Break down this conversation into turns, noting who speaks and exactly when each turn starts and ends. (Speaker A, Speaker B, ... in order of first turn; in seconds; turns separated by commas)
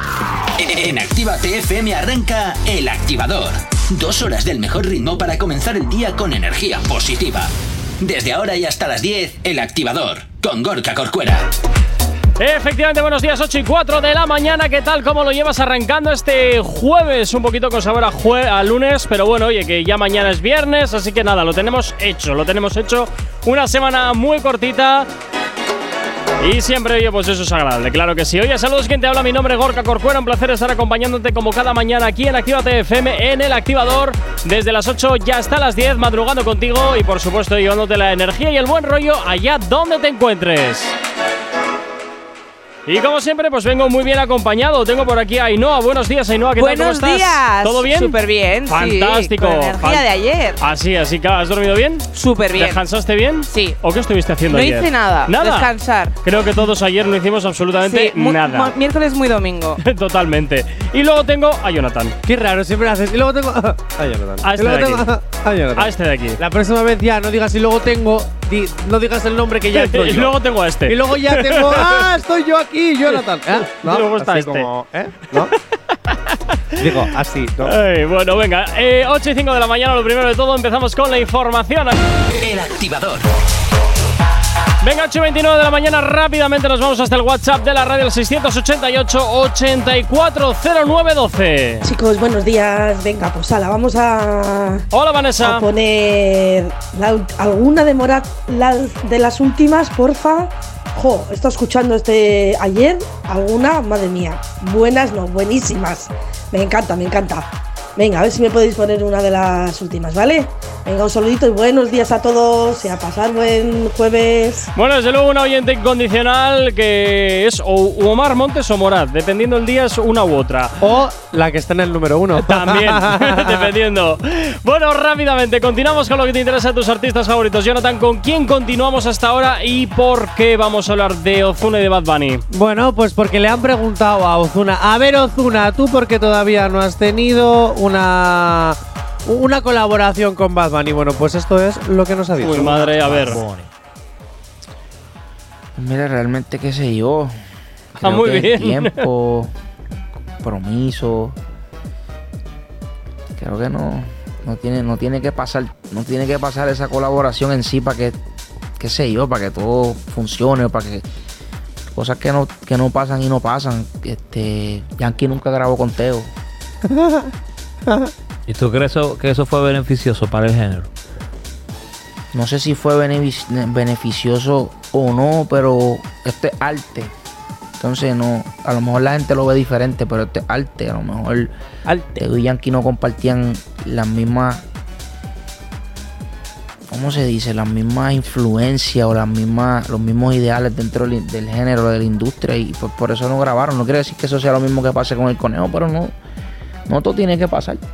Speaker A: 0.6-11.5, Speaker B: 12.4-25.1, Speaker B: 26.4-40.9, Speaker B: 42.9-50.0, Speaker C: 46.6-50.6, Speaker B: 50.6-55.7, Speaker C: 52.1-52.8, Speaker C: 53.5-53.8, Speaker C: 54.5-56.1, Speaker B: 56.2-58.7, Speaker C: 57.9-59.8, Speaker B: 59.8-62.2, Speaker D: 62.3-75.5, Speaker B: 64.4-65.1, Speaker B: 65.8-66.4, Speaker B: 69.7-72.1, Speaker B: 73.7-74.7, Speaker B: 75.9-77.0, Speaker D: 76.8-77.8, Speaker B: 77.7-82.0, Speaker A: 82.3-83.3, Speaker B: 84.8-91.9, Speaker E: 91.8-94.8, Speaker B: 94.9-95.7, Speaker E: 95.4-114.7, Speaker B: 114.8-120.9, Speaker D: 120.8-123.7, Speaker B: 122.4-132.4, Speaker D: 132.5-143.3, Speaker B: 142.4-143.4, Speaker F: 143.1-143.7, Speaker G: 145.8-147.4, Speaker G: 147.9-149.5, Speaker B: 148.0-149.1, Speaker G: 150.4-151.4, Speaker G: 153.4-158.2, Speaker G: 158.8-161.1, Speaker G: 161.9-166.3, Speaker D: 166.9-167.3, Speaker F: 168.5-170.9, Speaker G: 172.3-177.1, Speaker G: 177.8-181.5, Speaker D: 181.9-182.2, Speaker G: 182.2-184.6, Speaker G: 186.9-196.2, Speaker G: 196.9-197.8